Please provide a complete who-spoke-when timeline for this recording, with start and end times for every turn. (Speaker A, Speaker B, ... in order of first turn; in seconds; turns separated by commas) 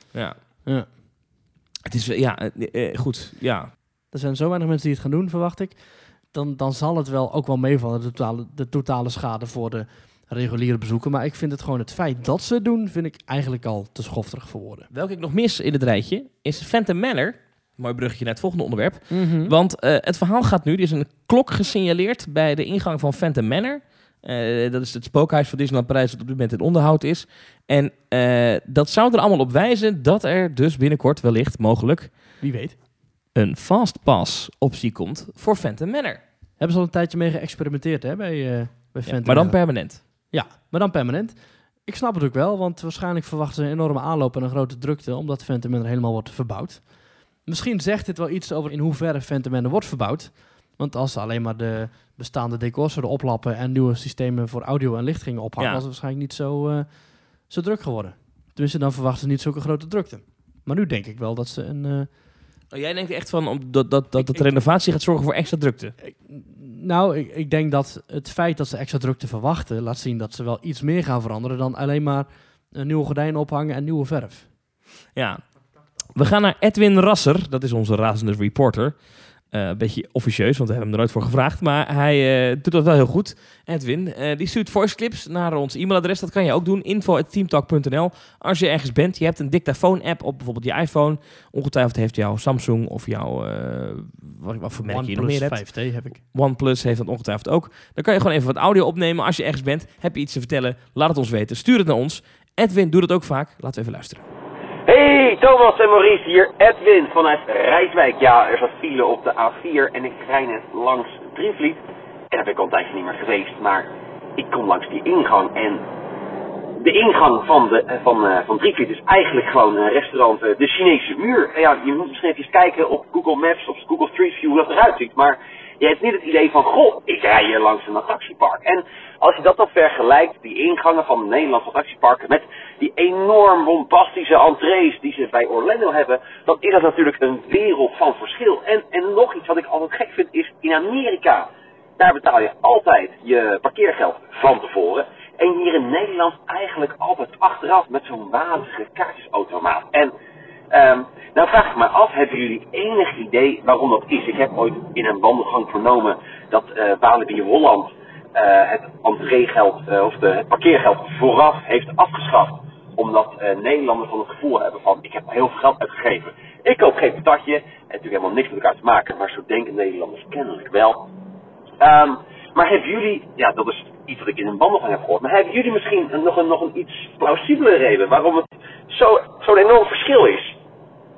Speaker A: 0.1-0.4, Speaker A: 1.9-3.7, Speaker B: 4.1-14.9, Speaker A: 14.9-32.1, Speaker B: 19.1-19.5, Speaker B: 32.4-32.8, Speaker A: 33.3-36.2, Speaker B: 36.6-62.1, Speaker A: 39.0-40.0, Speaker A: 55.6-55.8, Speaker A: 62.7-65.9, Speaker B: 64.2-64.5, Speaker B: 66.0-74.5, Speaker A: 75.1-75.4, Speaker A: 76.1-79.0, Speaker A: 79.5-104.2, Speaker B: 94.9-96.2, Speaker C: 104.9-115.8, Speaker C: 116.8-150.1, Speaker C: 150.7-171.1, Speaker C: 171.8-180.6